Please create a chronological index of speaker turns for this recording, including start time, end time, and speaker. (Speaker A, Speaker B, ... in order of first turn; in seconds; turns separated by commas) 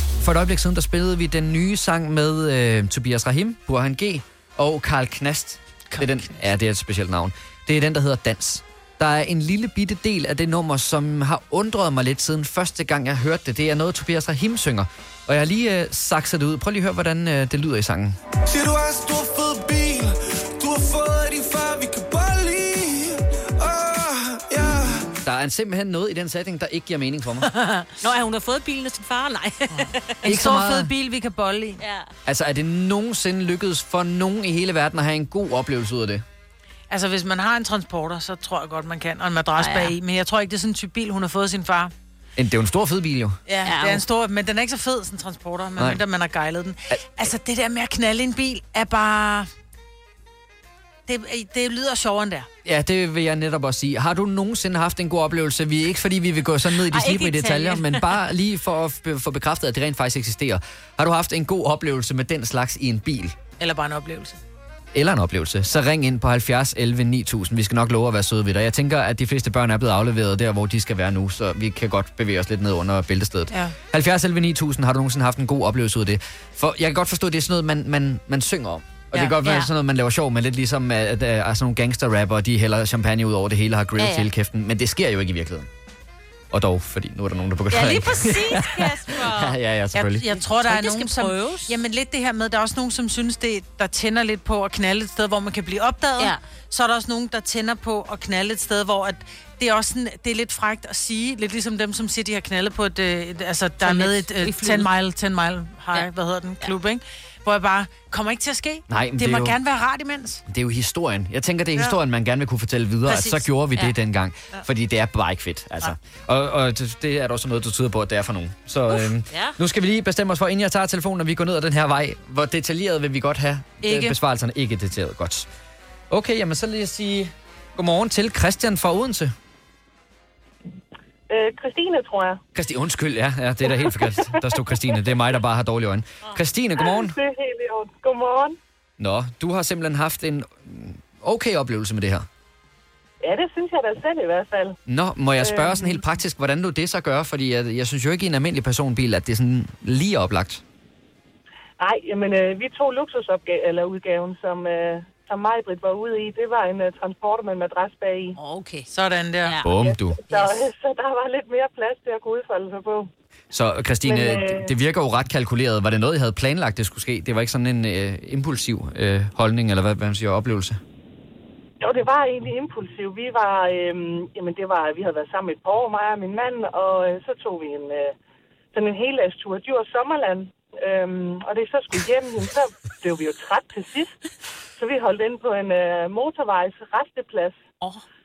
Speaker A: 0.2-18.2, Speaker B: 18.5-25.1, Speaker A: 25.2-27.5, Speaker C: 27.4-27.9, Speaker D: 28.0-30.3, Speaker C: 29.7-31.8, Speaker A: 30.2-30.9, Speaker D: 31.8-32.1, Speaker A: 32.3-36.2, Speaker C: 36.9-41.9, Speaker D: 39.5-40.0, Speaker A: 42.4-43.4, Speaker C: 43.5-49.5, Speaker D: 43.6-44.0, Speaker C: 51.1-52.5, Speaker A: 52.6-63.4, Speaker D: 56.9-58.1, Speaker C: 63.6-64.4, Speaker A: 64.9-85.7, Speaker D: 79.4-79.7, Speaker D: 84.0-84.3, Speaker A: 86.5-90.4, Speaker D: 87.7-89.6, Speaker C: 89.9-110.4, Speaker D: 90.5-91.8, Speaker D: 103.8-104.9, Speaker A: 108.9-109.6, Speaker A: 110.5-125.5, Speaker C: 113.1-113.5, Speaker D: 119.3-119.6, Speaker C: 123.8-124.2, Speaker A: 126.1-129.3, Speaker E: 131.3-132.4, Speaker A: 132.5-137.2, Speaker E: 133.8-134.2, Speaker E: 136.8-138.6, Speaker A: 139.0-142.2, Speaker E: 143.2-144.8, Speaker A: 144.8-150.6, Speaker E: 145.4-146.0, Speaker E: 151.8-158.4, Speaker D: 158.3-158.9, Speaker C: 158.9-159.6, Speaker D: 159.4-160.7, Speaker A: 159.6-160.2, Speaker E: 159.7-163.1, Speaker A: 163.5-170.8, Speaker E: 164.0-164.7, Speaker E: 171.8-178.1, Speaker E: 178.7-184.2, Speaker E: 184.8-187.6